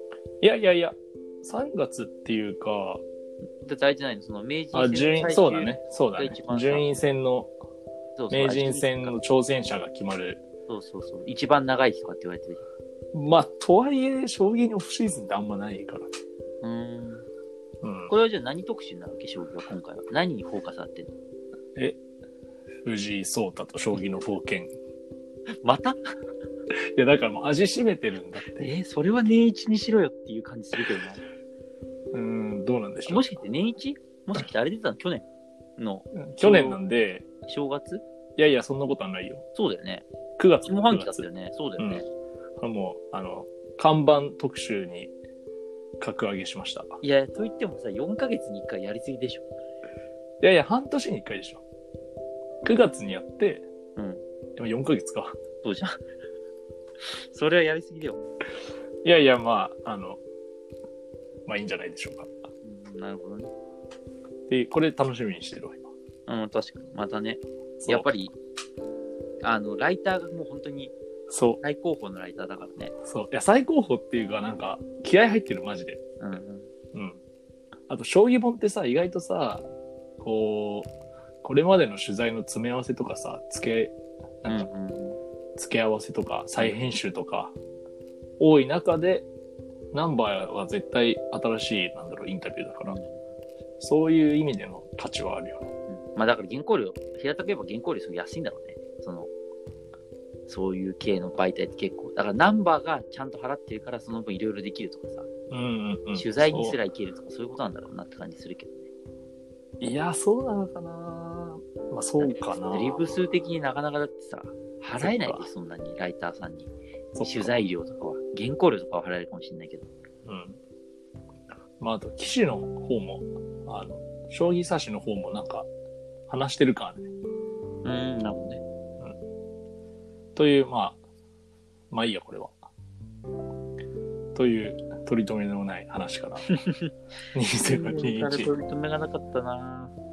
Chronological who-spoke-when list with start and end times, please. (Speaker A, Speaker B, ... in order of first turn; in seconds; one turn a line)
Speaker A: 0.4-3.0
Speaker B: 3.6-6.9
Speaker A: 4.7-7.5
Speaker B: 8.2-9.2
Speaker A: 8.3-10.4
Speaker B: 10.7-12.7
Speaker A: 13.1-16.1
Speaker B: 16.6-17.2
Speaker A: 17.8-18.1
Speaker B: 18.1-21.1
Speaker A: 22.8-24.7
Speaker B: 25.6-26.0
Speaker A: 26.8-28.7
Speaker B: 28.5-31.2
Speaker A: 32.1-33.3
Speaker B: 33.0-35.2
Speaker B: 35.8-36.8
Speaker A: 36.1-37.2
Speaker B: 37.4-38.0
Speaker A: 38.4-39.4
Speaker B: 39.5-40.0
Speaker A: 40.4-41.2
Speaker B: 40.6-42.1
Speaker A: 41.8-42.0
Speaker A: 42.6-45.1
Speaker A: 46.0-47.0
Speaker B: 47.0-49.5
Speaker A: 50.4-51.6
Speaker A: 52.6-53.6
Speaker B: 54.0-54.2
Speaker A: 54.6-55.4
Speaker B: 55.6-56.0
Speaker B: 57.0-58.2
Speaker A: 59.0-60.2
Speaker A: 61.5-62.3
Speaker B: 62.6-63.5
Speaker A: 64.5-65.9
Speaker B: 66.3-68.3
Speaker A: 67.8-68.1
Speaker B: 69.4-70.9
Speaker A: 71.3-71.6
Speaker B: 71.6-72.9
Speaker A: 73.0-76.0
Speaker B: 76.2-76.7
Speaker A: 76.9-77.2
Speaker A: 77.9-79.6
Speaker A: 80.2-80.9
Speaker A: 81.4-84.7
Speaker B: 84.5-85.2
Speaker A: 85.6-87.5
Speaker B: 86.6-86.9
Speaker A: 88.4-89.3
Speaker A: 89.9-93.0
Speaker B: 92.8-93.2
Speaker A: 93.8-95.7
Speaker B: 95.9-99.3
Speaker B: 100.5-105.3
Speaker A: 105.5-106.8
Speaker B: 106.1-108.9
Speaker A: 109.8-113.0
Speaker B: 112.2-119.9
Speaker A: 115.0-115.5
Speaker A: 117.1-117.5
Speaker A: 120.2-120.6
Speaker A: 121.8-125.7
Speaker A: 126.3-127.1
Speaker B: 127.8-128.6
Speaker A: 130.3-131.0
Speaker A: 131.9-132.6
Speaker A: 134.3-136.5
Speaker B: 136.5-136.9
Speaker A: 137.3-138.5
Speaker B: 137.6-139.9